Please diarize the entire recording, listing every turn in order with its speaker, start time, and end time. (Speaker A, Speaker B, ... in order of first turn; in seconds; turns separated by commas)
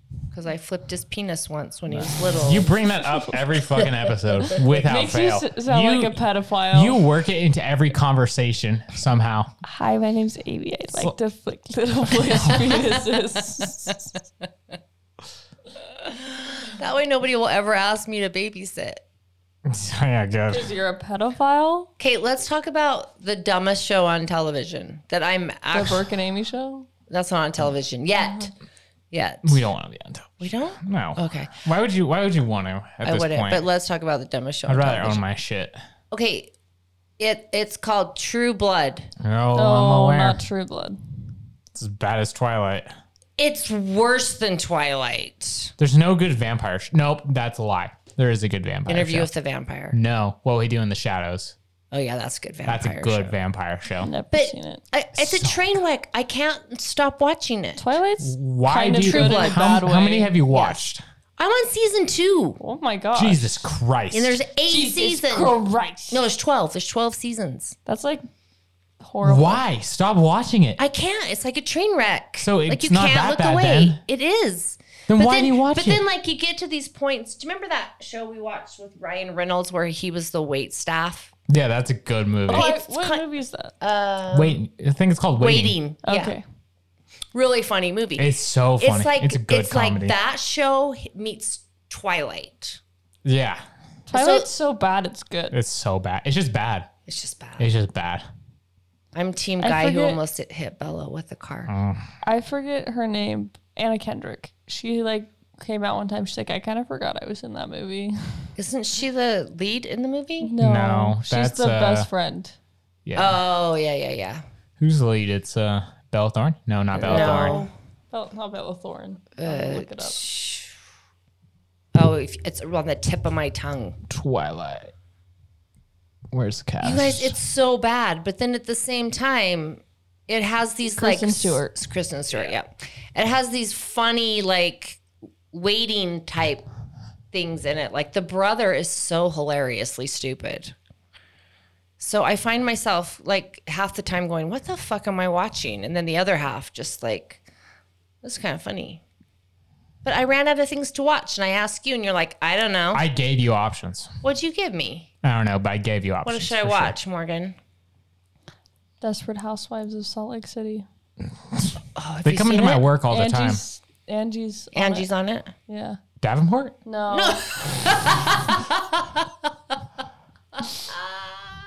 Speaker A: 0.3-2.7, Speaker B: 1.9-9.5, Speaker C: 4.5-7.0, Speaker C: 9.6-14.0, Speaker B: 12.4-12.7, Speaker A: 16.0-19.0, Speaker B: 19.6-20.7, Speaker C: 20.5-21.9, Speaker A: 22.0-26.1, Speaker C: 25.7-26.9, Speaker A: 27.1-28.5, Speaker A: 29.1-29.6, Speaker B: 29.4-33.6, Speaker A: 30.4-31.6, Speaker A: 33.0-35.2, Speaker B: 34.7-35.8, Speaker A: 36.1-36.5, Speaker A: 37.2-39.1, Speaker B: 39.2-40.4, Speaker C: 39.5-41.0, Speaker B: 41.7-42.9, Speaker A: 43.4-45.7, Speaker B: 45.8-49.3, Speaker A: 48.9-50.0, Speaker B: 49.9-51.5, Speaker A: 51.9-53.3, Speaker B: 52.6-54.1, Speaker C: 54.0-54.8, Speaker A: 54.3-57.8, Speaker B: 55.1-55.8, Speaker C: 57.8-60.3, Speaker B: 58.2-61.0, Speaker A: 59.0-59.7, Speaker A: 60.5-60.9, Speaker A: 61.4-62.6, Speaker C: 62.6-63.7, Speaker B: 63.1-64.4, Speaker A: 64.1-65.6, Speaker C: 64.7-66.2, Speaker A: 66.1-67.8, Speaker C: 67.8-68.2, Speaker C: 69.0-69.6, Speaker B: 69.2-70.8, Speaker A: 70.8-81.3, Speaker B: 72.4-74.0, Speaker B: 75.1-76.0, Speaker B: 81.5-82.7, Speaker C: 82.5-83.7, Speaker A: 82.5-83.2, Speaker A: 83.8-84.6, Speaker B: 84.3-85.8, Speaker A: 85.4-86.4, Speaker C: 86.0-86.4, Speaker A: 87.3-92.8, Speaker B: 88.2-90.1, Speaker B: 93.2-93.6, Speaker C: 94.1-95.6, Speaker A: 94.1-94.5, Speaker B: 95.5-96.9, Speaker A: 97.0-97.7, Speaker B: 97.6-98.2, Speaker A: 99.1-101.7, Speaker C: 99.6-100.2, Speaker B: 101.7-102.1, Speaker C: 102.2-108.5, Speaker A: 108.5-110.5, Speaker C: 110.4-112.5, Speaker B: 110.6-112.1, Speaker B: 113.0-113.4, Speaker A: 113.2-114.4, Speaker B: 114.8-117.6, Speaker A: 117.0-117.7, Speaker C: 117.0-120.2, Speaker A: 119.4-120.7, Speaker A: 121.9-124.0, Speaker B: 124.1-124.9, Speaker B: 126.3-127.3, Speaker A: 126.8-136.6, Speaker C: 130.9-131.8, Speaker A: 137.3-140.7, Speaker A: 142.0-147.4, Speaker A: 148.2-149.0, Speaker A: 150.0-153.1, Speaker B: 152.9-154.1, Speaker A: 154.2-155.1, Speaker B: 155.2-156.9, Speaker A: 156.2-157.6, Speaker C: 159.0-160.8, Speaker A: 161.9-162.8, Speaker B: 162.2-163.6, Speaker C: 163.1-165.1, Speaker A: 164.7-165.5, Speaker C: 165.7-166.0, Speaker B: 166.2-166.8, Speaker C: 166.8-167.4, Speaker A: 167.1-169.3, Speaker A: 170.8-171.5